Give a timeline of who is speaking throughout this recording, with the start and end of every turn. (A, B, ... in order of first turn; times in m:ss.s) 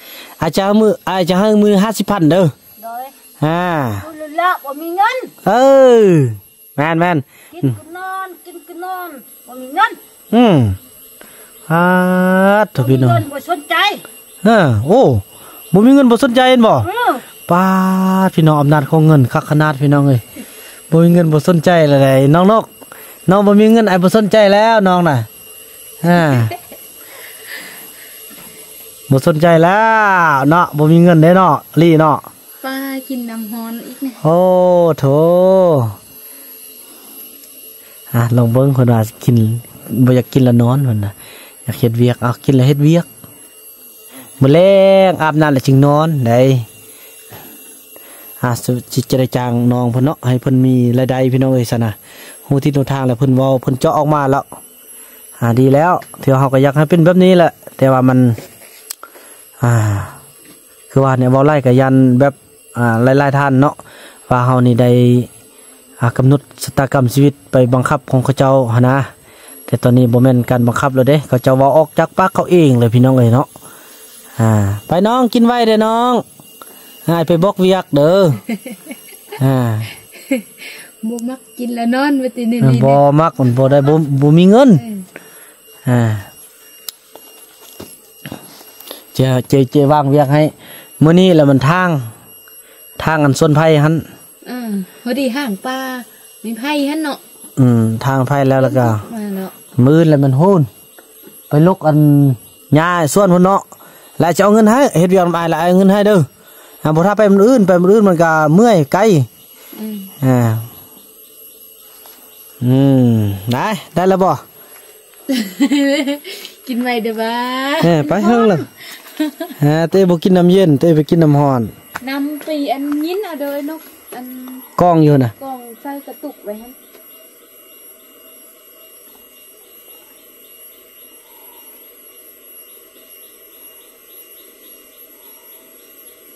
0:00.4-0:02.5 A
0:02.8-0:03.1 B
0:03.4-0:04.0 A
0:04.0-0:05.3 B
0:05.4-0:07.7 A
0:07.5-0:10.0 B
0:10.3-0:10.8 A
0:11.7-0:13.2 A
0:12.8-0:14.0 B
0:14.4-0:16.9 A
0:16.8-0:17.2 B
0:17.5-0:20.2 A
0:20.9-0:22.7 A
0:23.3-0:25.3 A
0:26.0-0:26.5 A
0:29.1-0:32.3 A
0:32.6-0:34.2 C
0:34.2-0:36.0 A
0:38.1-0:41.1 A
0:41.6-0:43.1 A
0:44.4-0:46.7 A
0:48.4-0:54.4 A
0:55.4-0:58.4 A
0:59.6-1:00.2 A
1:00.9-1:03.8 A
1:04.3-1:05.3 A
1:06.0-1:09.1 A
1:09.7-1:13.5 A
1:14.4-1:16.2 A
1:17.1-1:18.4 A
1:18.5-1:18.9 C
1:19.4-1:19.9 A
1:20.1-1:23.0 C
1:22.6-1:24.8 A
1:24.8-1:25.1 C
1:25.9-1:26.3 A
1:29.1-1:32.1 A
1:33.0-1:34.0 A
1:34.4-1:37.2 C
1:37.6-1:39.0 A
1:38.6-1:39.6 C
1:39.8-1:40.7 A
1:41.5-1:43.6 A
1:44.2-1:46.3 A
1:46.8-1:49.3 A
1:49.8-1:50.1 C
1:50.2-1:50.7 A
1:52.6-1:54.4 A
1:55.3-1:59.6 C
1:57.8-1:58.6 A
1:59.6-2:01.7 A
2:02.0-2:04.6 C
2:04.8-2:05.3 A
2:05.4-2:06.8 C